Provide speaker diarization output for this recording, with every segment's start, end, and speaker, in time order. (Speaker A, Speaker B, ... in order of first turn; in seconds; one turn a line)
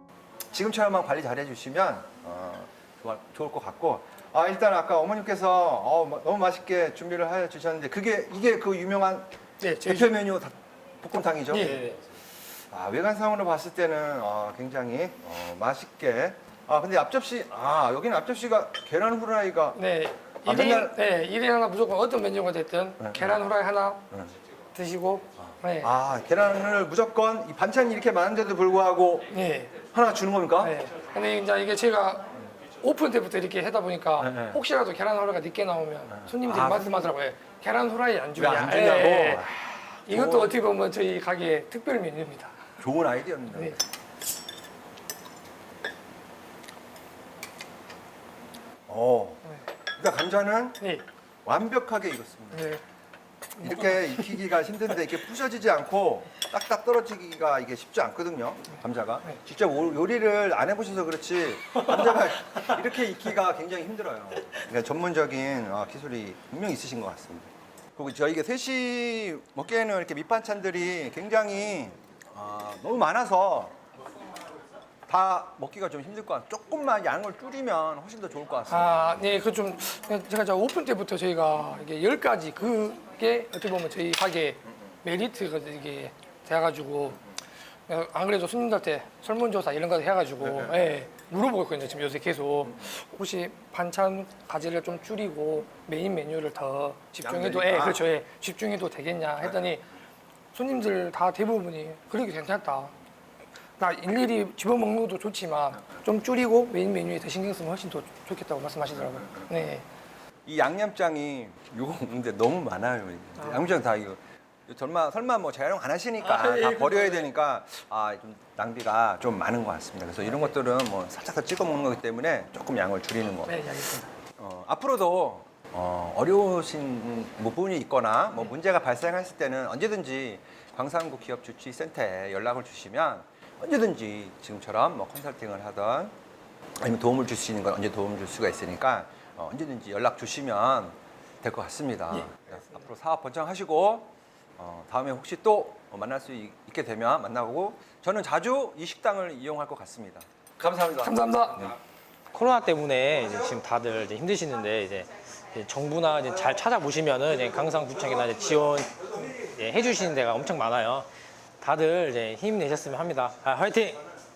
Speaker A: 0.5-9.3
Speaker B: 9.6-10.2
Speaker A: 9.8-11.8
Speaker B: 11.5-11.8
Speaker A: 12.7-19.8
Speaker B: 19.8-24.0
Speaker A: 20.4-21.0
Speaker A: 23.0-23.4
Speaker B: 24.8-25.9
Speaker A: 25.4-29.3
Speaker B: 29.3-29.9
Speaker A: 29.8-30.8
Speaker B: 30.6-32.3
Speaker B: 32.8-39.5
Speaker A: 34.2-34.6
Speaker A: 36.1-37.0
Speaker A: 38.4-40.6
Speaker B: 40.1-42.6
Speaker A: 42.8-43.8
Speaker A: 48.9-49.4
Speaker A: 50.0-50.8
Speaker A: 51.5-52.7
Speaker B: 52.5-52.8
Speaker A: 53.6-73.8
Speaker B: 53.6-54.4
Speaker A: 75.1-79.3
Speaker B: 78.7-87.2
Speaker B: 87.9-99.9
Speaker A: 90.4-90.8
Speaker A: 97.2-98.1
Speaker B: 100.5-102.9
Speaker B: 103.8-109.8
Speaker A: 110.5-123.6
Speaker B: 113.4-113.7
Speaker B: 116.2-117.3
Speaker B: 120.2-120.5
Speaker B: 123.5-124.1
Speaker A: 124.4-136.1
Speaker A: 136.8-151.8
Speaker B: 142.1-142.8
Speaker B: 151.0-151.7
Speaker C: 152.3-161.1
Speaker C: 161.6-164.0